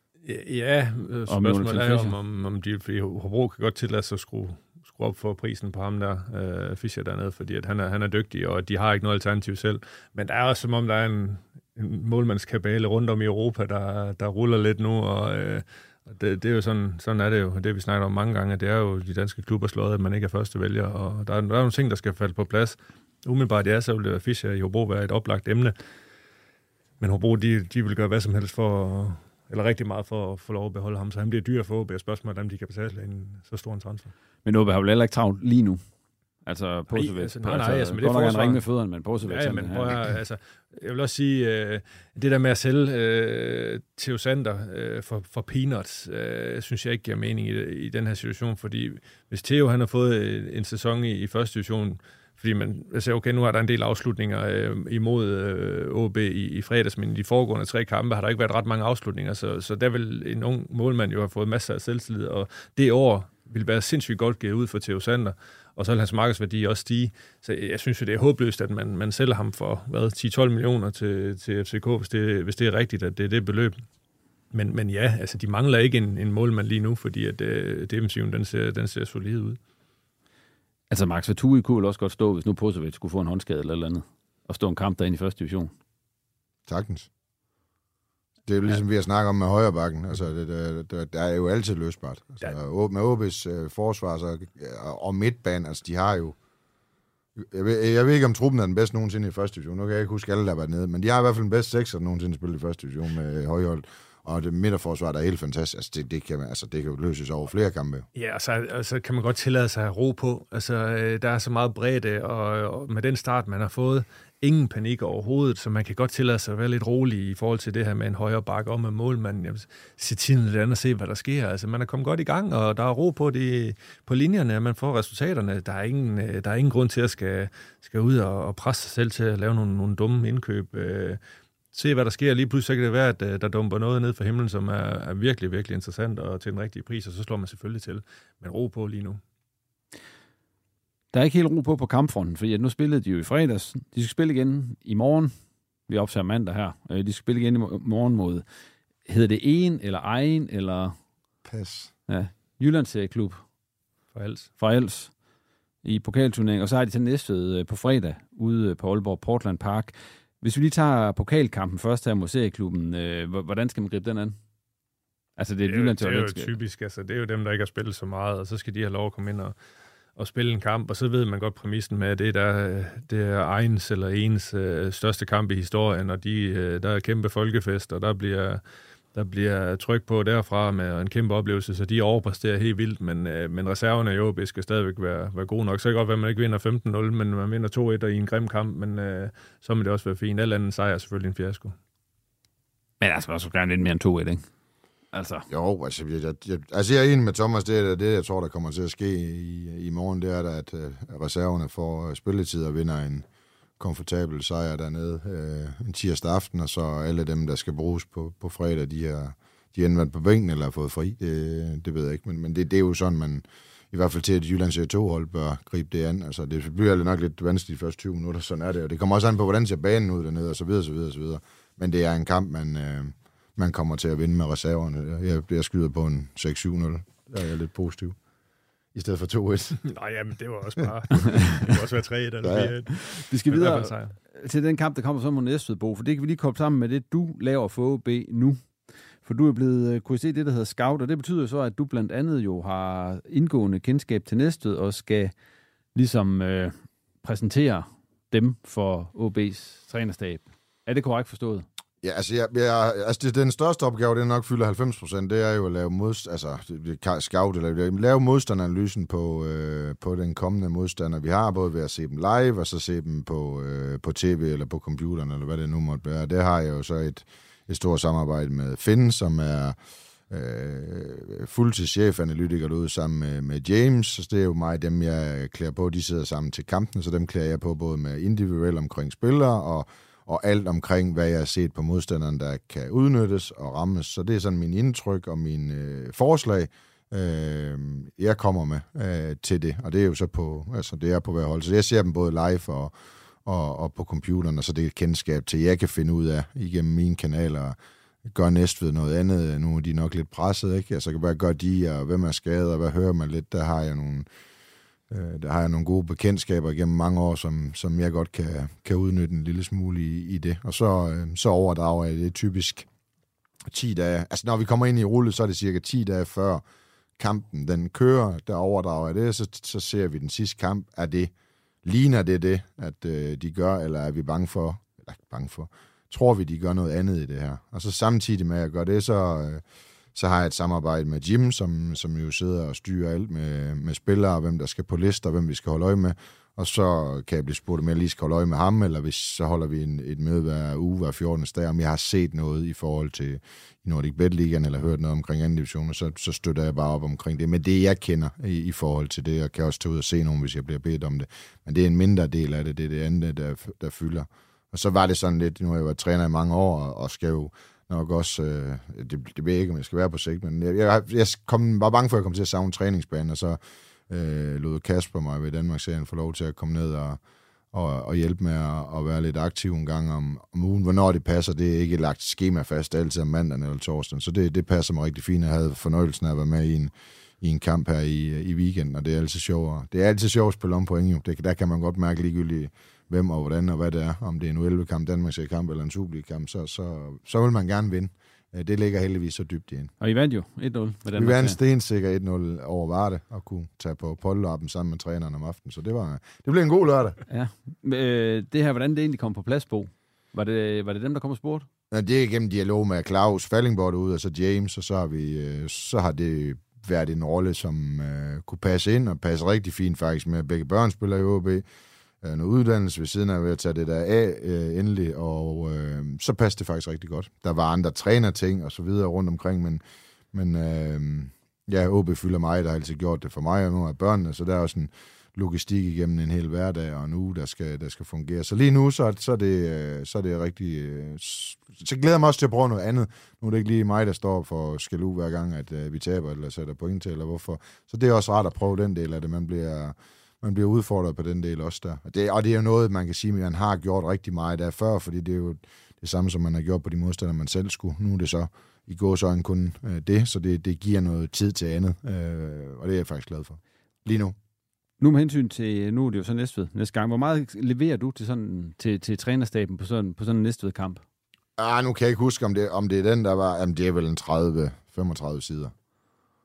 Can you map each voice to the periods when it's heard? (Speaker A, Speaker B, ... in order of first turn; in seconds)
Speaker A: 0.2-25.7, 27.0-34.1, 36.9-38.6, 39.2-73.7, 74.5-79.6, 108.2-131.2, 131.7-139.2, 154.1-154.5, 165.7-169.5, 170.2-178.6, 179.1-191.7, 229.8-234.2
Speaker B: 1.3-2.1, 34.4-35.8, 36.5-40.1, 80.9-85.7, 141.1-145.3, 145.9-148.4, 149.1-150.9, 152.1-153.4, 154.6-155.1, 155.8-164.4, 165.4-166.5, 193.0-194.4, 195.1-195.4, 233.1-238.6, 239.2-245.3, 245.9-251.7, 390.0-391.6, 397.3-401.7, 455.0-461.0
Speaker C: 86.7-87.1, 88.5-96.3, 97.4-108.1, 151.4-151.9, 195.5-203.2, 203.8-228.2, 228.9-229.8, 232.4-232.7, 252.0-269.8, 270.3-292.9, 293.4-304.3, 305.1-312.9, 313.7-316.6, 317.2-321.3, 321.8-329.6, 330.1-367.2, 367.7-389.9, 391.1-397.2, 401.9-411.6, 412.2-419.8, 420.3-454.4, 461.6-465.7